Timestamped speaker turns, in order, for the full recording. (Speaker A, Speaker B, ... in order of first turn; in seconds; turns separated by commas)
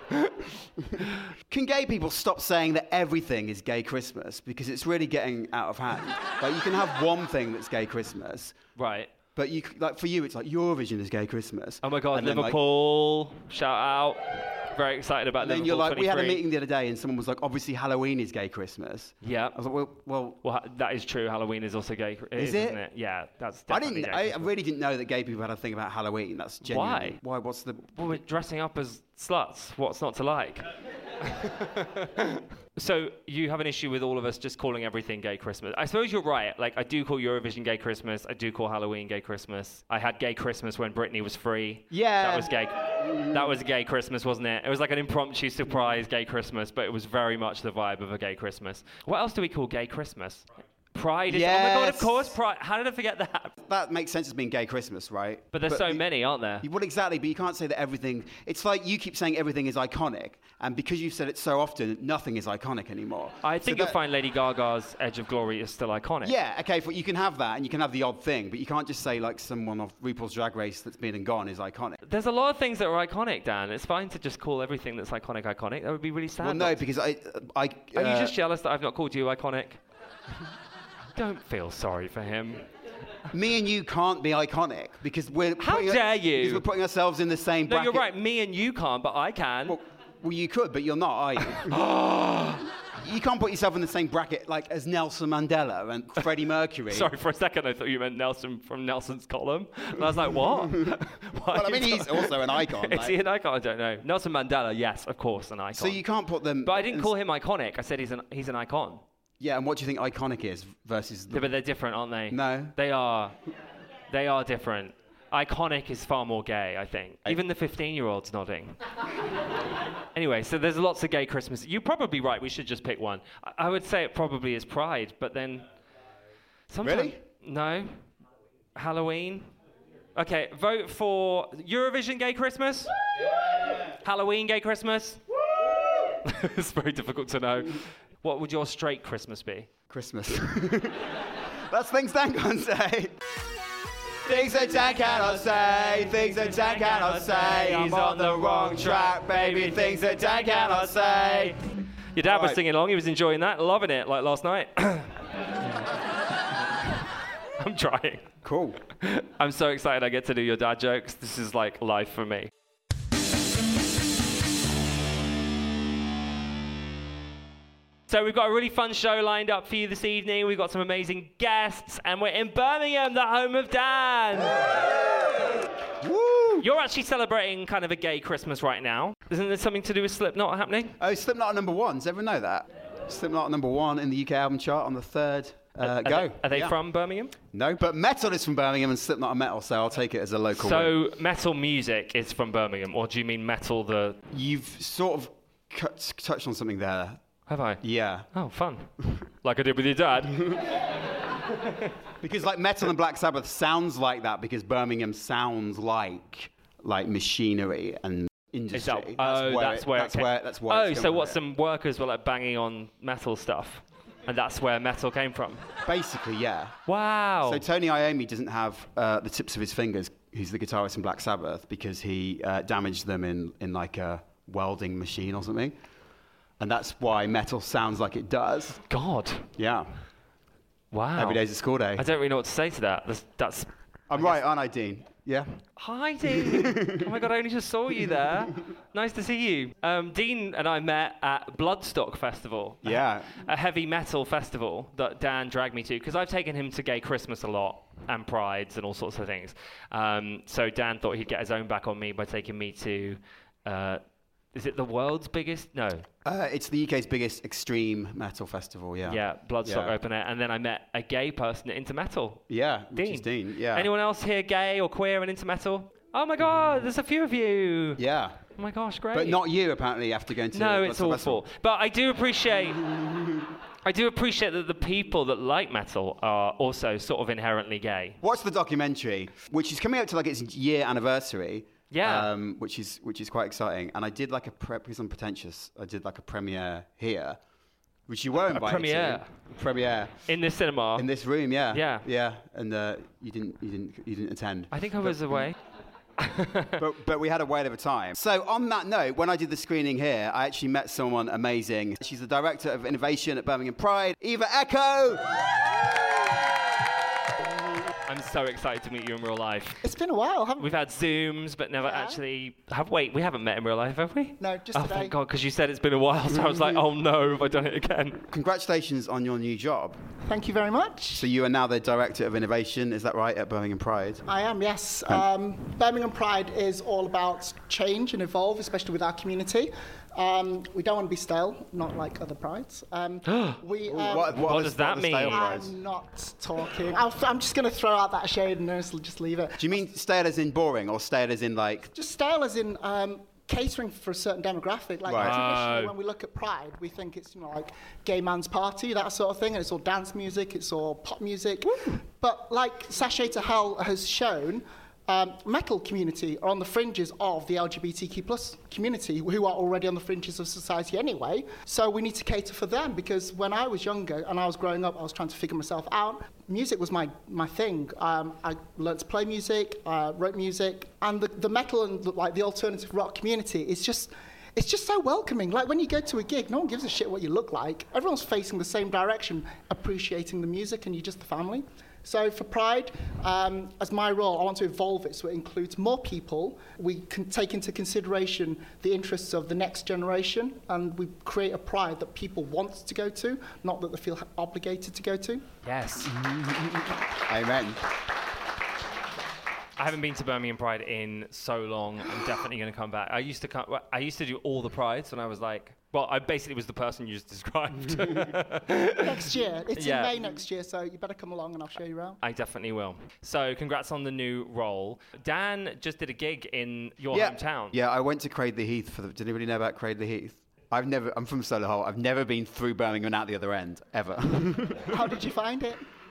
Speaker A: 0.9-8.6, Speaker B: 8.8-9.1, Speaker A: 9.3-12.6, Speaker B: 11.8-16.4, Speaker A: 15.4-20.4, Speaker B: 19.2-19.6, Speaker B: 20.4-24.5, Speaker A: 22.4-22.8, Speaker A: 23.7-28.0, Speaker B: 26.6-27.2, Speaker B: 27.9-30.7, Speaker B: 31.2-53.6, Speaker A: 41.9-43.4, Speaker A: 51.3-52.3, Speaker A: 53.7-56.0, Speaker B: 55.5-56.7, Speaker A: 56.6-64.0, Speaker B: 63.4-66.3, Speaker A: 66.2-72.0, Speaker B: 72.0-76.8, Speaker A: 76.4-78.3, Speaker B: 77.9-79.8, Speaker B: 81.2-82.6, Speaker A: 83.3-88.1, Speaker B: 85.6-86.6, Speaker B: 87.7-89.8, Speaker A: 89.7-91.8, Speaker B: 91.5-92.7, Speaker A: 93.0-97.1, Speaker B: 96.9-106.0, Speaker A: 100.6-103.2, Speaker A: 105.8-107.1, Speaker B: 106.7-109.0, Speaker A: 109.4-111.5, Speaker B: 111.3-113.3, Speaker A: 112.3-112.8, Speaker B: 114.1-118.8, Speaker B: 120.1-125.7, Speaker B: 126.7-128.1, Speaker A: 126.8-127.2, Speaker B: 128.8-129.5, Speaker B: 130.2-132.9, Speaker B: 133.9-135.2, Speaker B: 136.2-139.7, Speaker A: 139.9-141.1, Speaker A: 141.7-143.2, Speaker A: 144.2-151.6, Speaker B: 146.4-151.6, Speaker B: 152.1-155.2, Speaker A: 152.2-152.6, Speaker B: 157.6-158.3, Speaker A: 158.4-158.8, Speaker B: 159.0-162.5, Speaker B: 168.1-174.7, Speaker A: 176.0-176.7, Speaker B: 176.6-181.0, Speaker A: 181.0-186.8, Speaker B: 185.8-187.3, Speaker A: 187.5-190.9, Speaker B: 190.6-194.2, Speaker A: 194.3-197.2, Speaker B: 197.5-200.5, Speaker A: 197.8-198.3, Speaker A: 202.2-211.4, Speaker B: 208.7-215.7, Speaker A: 215.8-216.8, Speaker B: 216.9-217.6, Speaker A: 217.5-225.8, Speaker A: 226.6-228.8, Speaker B: 228.9-229.5, Speaker A: 229.6-229.9, Speaker B: 230.9-231.4, Speaker A: 231.2-232.0, Speaker B: 232.0-234.4, Speaker A: 234.1-235.6, Speaker B: 235.8-256.1, Speaker A: 236.3-237.0, Speaker A: 242.8-243.4, Speaker A: 256.2-259.9, Speaker B: 259.1-268.0, Speaker A: 262.5-263.9, Speaker A: 268.0-268.5, Speaker B: 268.6-269.4, Speaker A: 269.1-271.4, Speaker B: 270.5-272.8, Speaker A: 272.8-273.5, Speaker B: 273.9-278.2, Speaker A: 278.2-287.4, Speaker B: 281.9-282.3, Speaker A: 288.1-290.3, Speaker B: 288.4-289.5, Speaker B: 290.3-291.1, Speaker A: 291.0-295.5, Speaker B: 291.7-292.1, Speaker B: 294.7-295.6, Speaker B: 296.2-296.8, Speaker A: 296.8-305.4, Speaker B: 308.1-309.8, Speaker C: 309.8-310.7, Speaker B: 310.6-318.2, Speaker C: 311.8-312.2, Speaker C: 314.4-315.2, Speaker A: 318.3-320.0, Speaker C: 320.2-321.3, Speaker A: 321.2-324.2, Speaker C: 324.3-334.4, Speaker B: 333.3-333.6, Speaker A: 333.9-335.7, Speaker B: 334.3-335.6, Speaker C: 335.3-339.9, Speaker A: 339.6-341.9, Speaker C: 341.9-395.5, Speaker A: 345.1-345.4, Speaker B: 345.1-345.9, Speaker B: 395.6-396.1, Speaker A: 396.1-397.8, Speaker B: 399.8-410.1, Speaker C: 409.0-412.2, Speaker B: 412.2-417.8, Speaker A: 417.1-425.0, Speaker C: 424.9-425.9